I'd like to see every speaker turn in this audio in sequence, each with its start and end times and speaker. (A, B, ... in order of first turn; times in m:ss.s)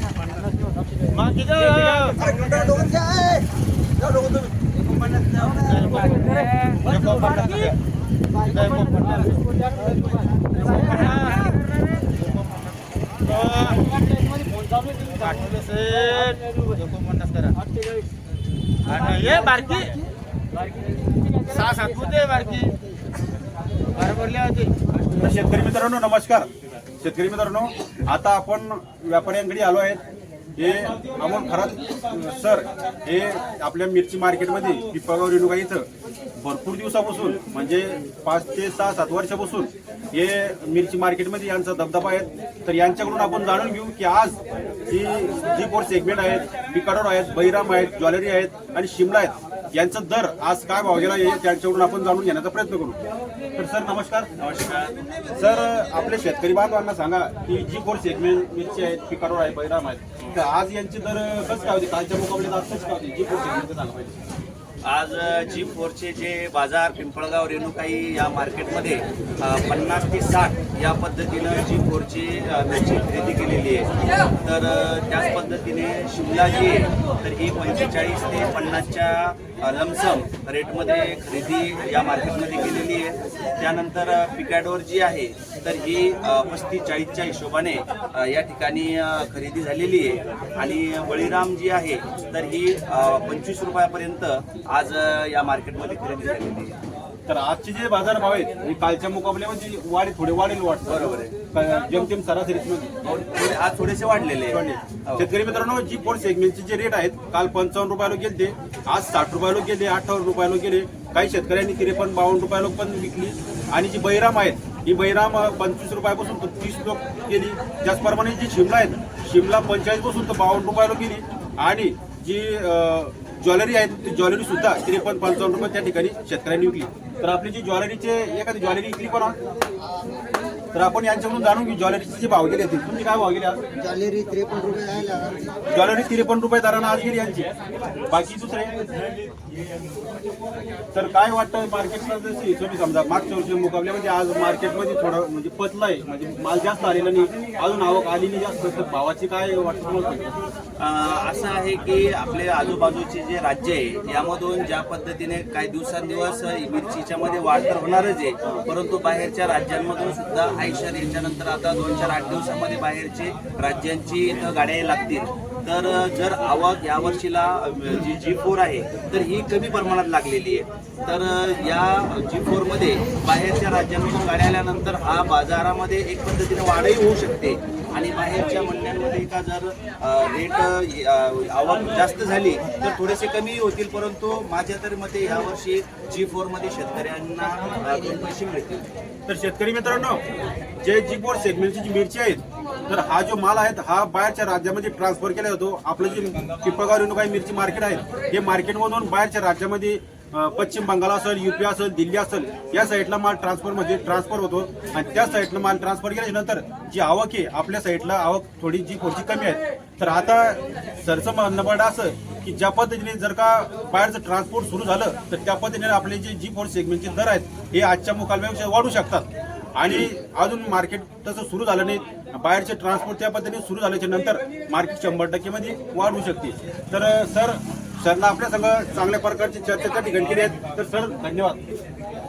0:01.1-0:02.4 A
0:02.1-0:05.9 B
0:05.5-0:07.8 A
0:08.4-0:09.9 A
0:10.5-0:17.6 A
0:18.8-0:20.0 A
0:21.4-0:22.8 A
0:24.0-0:24.7 A
0:25.2-0:26.5 C
0:27.0-0:30.0 C
0:30.6-0:53.0 C
0:53.6-0:54.3 C
0:54.4-0:55.0 D
0:55.4-1:04.2 C
1:04.8-1:13.9 D
1:14.4-1:36.8 D
1:37.3-1:42.9 C
1:40.9-1:41.4 D
1:43.0-1:45.3 D
1:44.5-2:09.4 C
2:10.7-2:13.6 C
2:13.8-2:15.6 B
2:15.7-2:17.5 C
2:18.1-2:18.8 C
2:20.9-2:30.4 C
2:30.8-3:08.9 D
3:09.3-3:10.2 C
3:10.8-3:51.6 C